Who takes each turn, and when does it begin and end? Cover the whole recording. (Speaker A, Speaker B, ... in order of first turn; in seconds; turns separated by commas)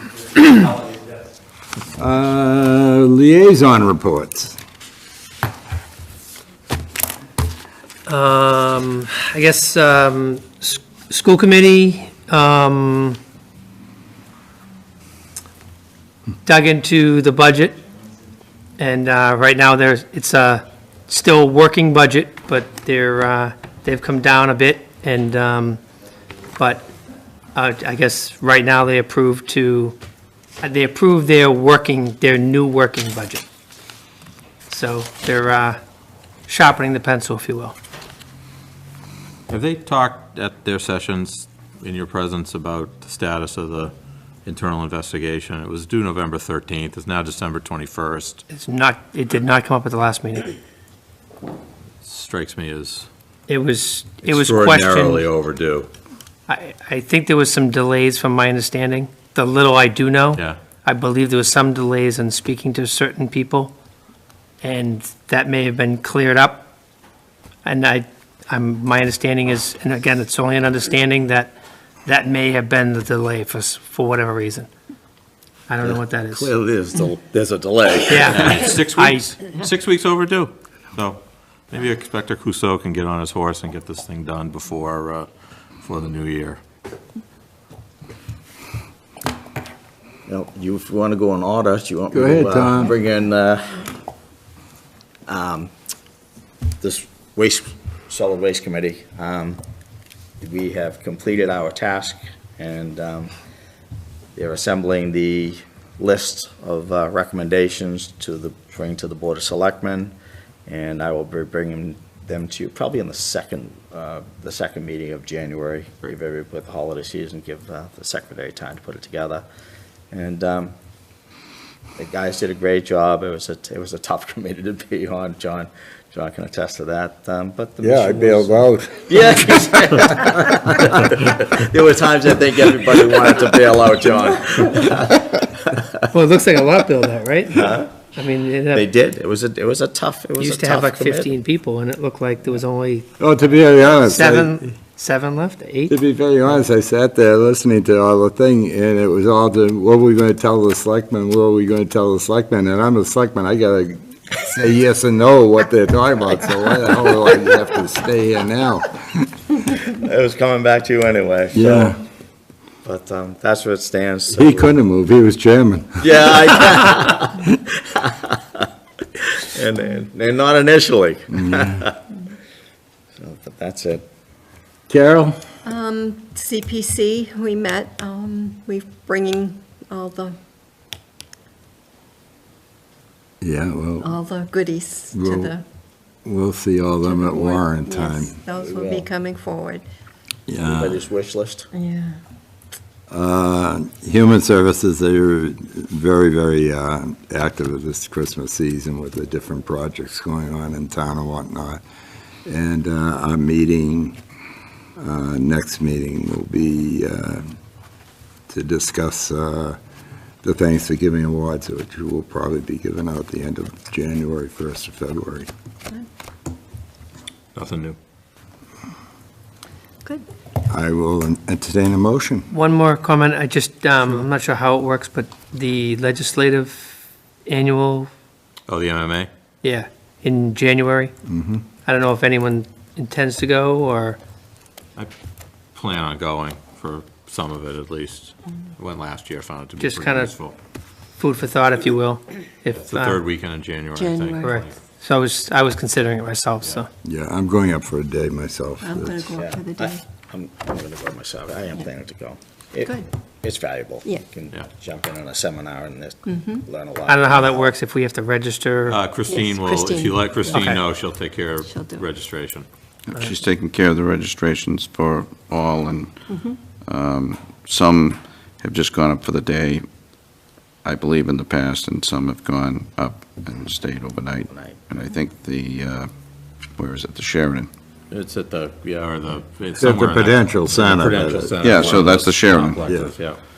Speaker A: 2.0-4.5, Speaker B: 8.1-13.2, Speaker B: 16.4-17.8, Speaker B: 18.8-25.8, Speaker B: 26.6-26.9, Speaker B: 27.6-30.0, Speaker B: 30.6-33.5, Speaker B: 34.7-35.8, Speaker B: 36.5-37.8, Speaker C: 39.5-43.9, Speaker C: 44.5-48.4, Speaker B: 48.5-50.5, Speaker C: 52.0-53.1, Speaker B: 53.5-55.3, Speaker C: 54.2-55.9, Speaker B: 56.5-63.7, Speaker B: 64.6-66.7, Speaker B: 67.6-74.7, Speaker B: 75.7-76.5, Speaker D: 75.8-78.6, Speaker B: 78.1-79.3, Speaker C: 78.1-86.6, Speaker D: 90.3-93.9, Speaker A: 92.1-92.9, Speaker D: 95.3-95.7, Speaker D: 96.8-99.6, Speaker D: 100.4-103.3, Speaker D: 104.3-110.1, Speaker D: 110.7-119.4, Speaker D: 120.1-120.7, Speaker D: 122.0-135.8, Speaker A: 127.8-129.1, Speaker B: 136.1-138.9, Speaker D: 137.6-137.9, Speaker D: 138.7-141.3, Speaker B: 140.4-143.1, Speaker A: 143.2-144.6, Speaker B: 143.9-146.0, Speaker A: 145.9-159.2, Speaker D: 159.7-162.0, Speaker A: 161.5-162.0, Speaker D: 162.8-164.8, Speaker A: 164.3-166.2, Speaker D: 166.0-168.7, Speaker D: 169.2-172.0, Speaker A: 171.3-171.8, Speaker D: 173.2-174.1, Speaker A: 174.9-175.4, Speaker E: 175.6-180.4, Speaker A: 183.4-184.2, Speaker E: 184.0-185.6, Speaker A: 185.1-185.6, Speaker A: 186.2-188.4, Speaker E: 187.0-189.8, Speaker D: 188.5-189.1, Speaker A: 190.5-191.0, Speaker D: 190.6-191.7, Speaker E: 191.7-192.2, Speaker A: 193.1-201.8, Speaker A: 202.5-204.2, Speaker A: 205.0-207.5, Speaker A: 208.5-209.8, Speaker A: 210.4-215.5, Speaker C: 217.6-218.0, Speaker A: 220.7-222.5, Speaker B: 222.5-228.1, Speaker C: 228.7-229.3, Speaker B: 229.6-231.1, Speaker A: 231.2-231.6, Speaker B: 231.8-234.2, Speaker C: 235.8-240.6, Speaker B: 239.8-240.3, Speaker B: 241.2-243.2, Speaker C: 242.7-244.8, Speaker E: 243.9-244.6, Speaker B: 244.4-246.9, Speaker A: 247.0-249.3, Speaker E: 248.8-250.0, Speaker D: 249.4-257.7, Speaker E: 256.2-256.6, Speaker B: 257.1-259.0, Speaker C: 258.9-262.7, Speaker E: 259.3-260.8, Speaker B: 260.5-260.8, Speaker E: 261.6-262.1, Speaker F: 263.1-269.9, Speaker E: 266.3-266.6, Speaker F: 270.8-277.7, Speaker D: 274.5-274.9, Speaker C: 278.1-283.4, Speaker A: 279.8-282.0, Speaker F: 281.6-282.9, Speaker A: 282.8-283.1